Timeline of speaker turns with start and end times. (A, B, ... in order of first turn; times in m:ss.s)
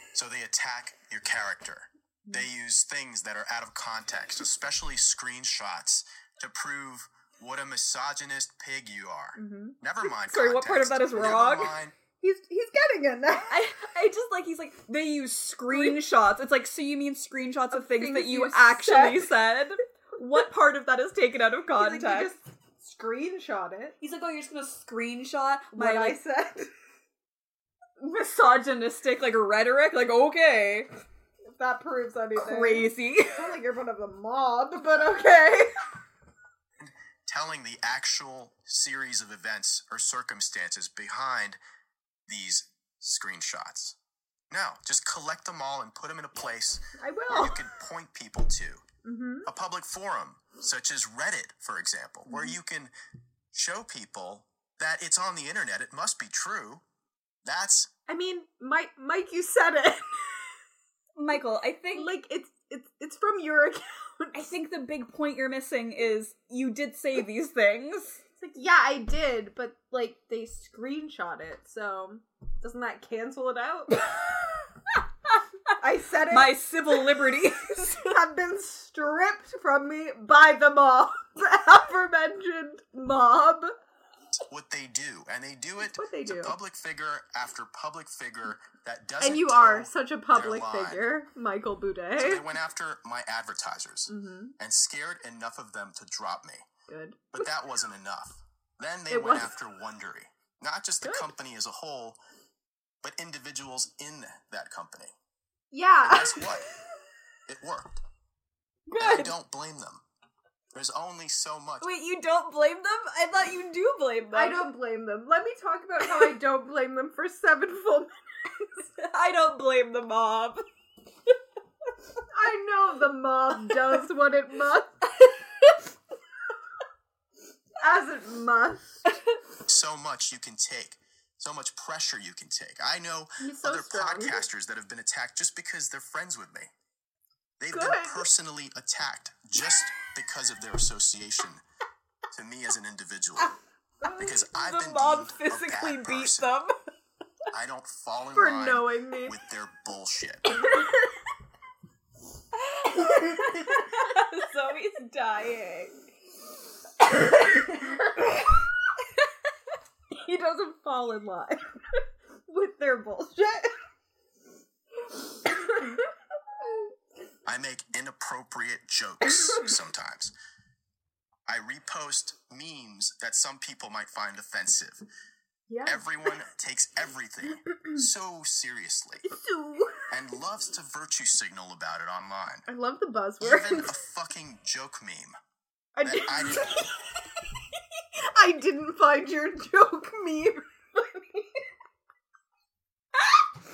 0:00.1-0:11.9 A
0:09.4-0:09.8 B
0:10.2-0:11.7 C
0:12.2-0:13.6 B
0:13.5-0:22.3 C
0:15.7-0:16.0 B
0:17.7-0:19.4 B
0:21.7-0:24.0 B
0:24.0-0:26.2 C
0:25.7-0:26.7 B
0:28.0-0:30.9 C
0:31.5-0:35.8 B
0:32.4-0:33.4 C
0:36.8-0:41.6 A
0:42.3-0:44.0 A
0:44.5-0:48.8 A
0:47.0-0:47.6 B
0:49.0-0:49.5 B
0:49.4-0:52.9 A
0:53.5-0:56.8 A
0:57.4-0:57.9 A
0:58.1-1:00.5 B
1:01.2-1:02.1 C
1:01.9-1:04.5 B
1:04.3-1:08.2 C
1:08.4-1:14.0 B
1:15.8-1:17.1 B
1:16.3-1:18.2 C
1:17.9-1:23.7 B
1:24.4-1:31.1 A
1:25.8-1:26.5 C
1:29.2-1:32.4 B
1:32.2-1:36.6 A
1:34.1-1:34.5 B
1:36.9-1:37.5 B
1:37.3-1:42.2 A
1:39.1-1:39.5 B
1:43.0-1:45.1 A
1:45.7-1:46.6 B
1:46.0-1:46.7 A
1:47.5-1:48.0 A
1:48.9-1:49.3 C
1:49.0-1:50.0 A
1:50.7-1:51.9 A
1:51.8-1:54.6 C
1:54.3-1:58.8 B
1:56.0-1:56.3 C
1:59.0-2:00.6 C
2:02.3-2:05.0 B
2:07.8-2:08.9 B
2:09.6-2:16.7 A
2:13.4-2:14.4 B
2:17.6-2:21.6 A
2:17.7-2:18.3 B
2:22.3-2:23.5 A
2:24.2-2:26.5 A
2:24.2-2:26.7 C
2:27.5-2:30.5 A
2:28.3-2:29.4 B
2:30.5-2:31.1 B
2:32.5-2:36.0 C
2:33.1-2:34.2 B
2:37.2-2:37.8 C
2:40.1-2:41.7 B
2:42.5-2:43.7 B
2:45.5-2:46.0 B
2:47.4-2:50.3 A
2:51.5-2:55.0 A
2:55.7-2:56.3 B
2:55.8-2:59.2 A
2:59.2-3:00.1 B
3:00.1-3:02.7 A
3:02.7-3:03.9 B
3:03.4-3:05.4 A
3:06.0-3:07.2 B
3:06.0-3:06.8 A
3:08.2-3:11.5 B